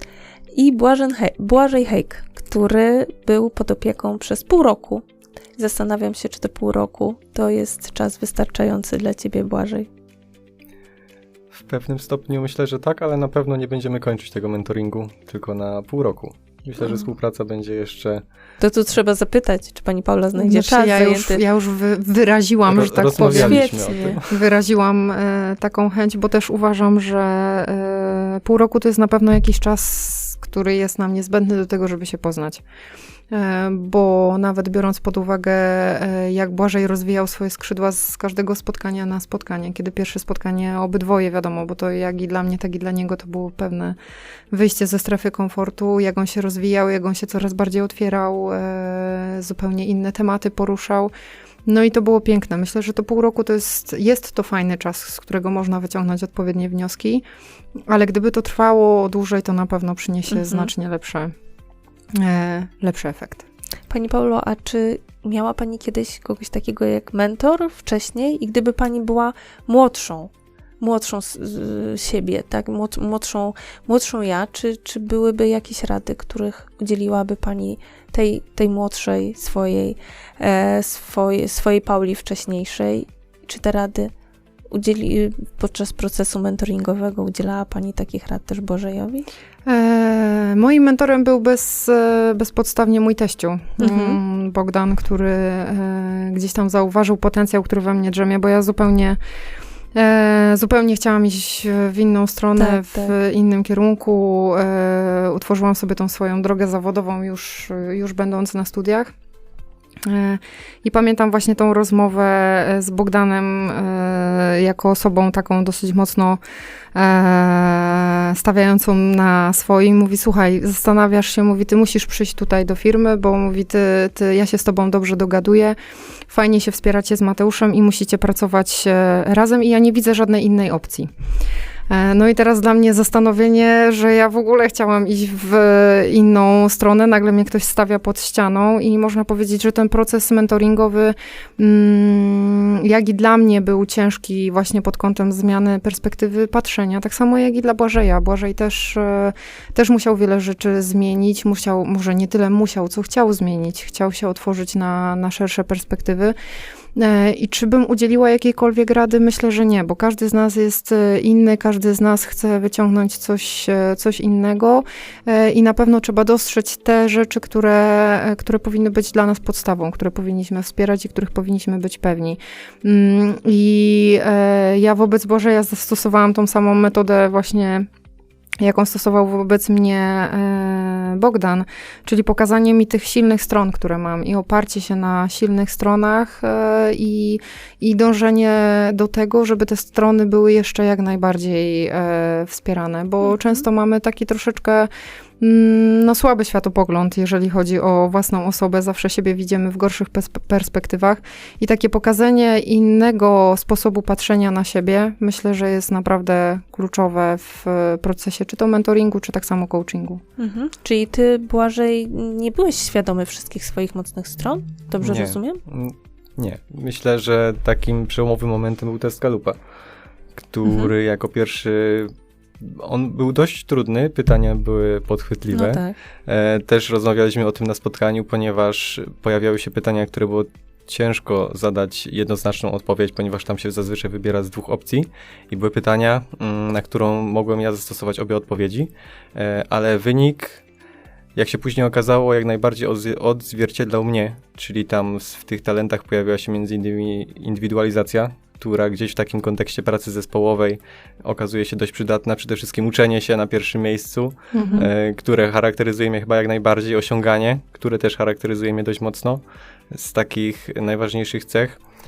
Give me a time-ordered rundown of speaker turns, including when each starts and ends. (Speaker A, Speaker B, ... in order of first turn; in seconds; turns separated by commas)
Speaker A: 0.5-5.0, Speaker A: 5.6-9.9, Speaker B: 11.5-18.2, Speaker A: 16.8-17.1, Speaker A: 18.6-21.4, Speaker C: 20.3-32.6, Speaker B: 22.6-24.3, Speaker A: 23.2-24.2, Speaker C: 33.3-44.0, Speaker C: 44.5-51.1, Speaker C: 51.6-57.2, Speaker C: 57.9-61.3, Speaker A: 60.3-60.7, Speaker C: 62.1-63.5, Speaker A: 63.9-84.1, Speaker A: 84.7-89.3, Speaker C: 89.7-99.2, Speaker A: 93.8-94.2, Speaker C: 99.9-109.1, Speaker A: 102.5-103.1, Speaker C: 110.0-116.4, Speaker C: 116.9-125.8, Speaker C: 126.3-131.1, Speaker C: 131.9-156.3, Speaker C: 156.9-177.8, Speaker C: 178.6-194.9, Speaker A: 193.2-193.6, Speaker C: 195.4-210.2, Speaker A: 210.4-215.6, Speaker B: 215.0-219.6, Speaker B: 220.3-240.6, Speaker A: 220.7-220.9, Speaker A: 225.5-225.9, Speaker B: 241.3-261.8, Speaker C: 254.5-254.9, Speaker A: 254.6-254.9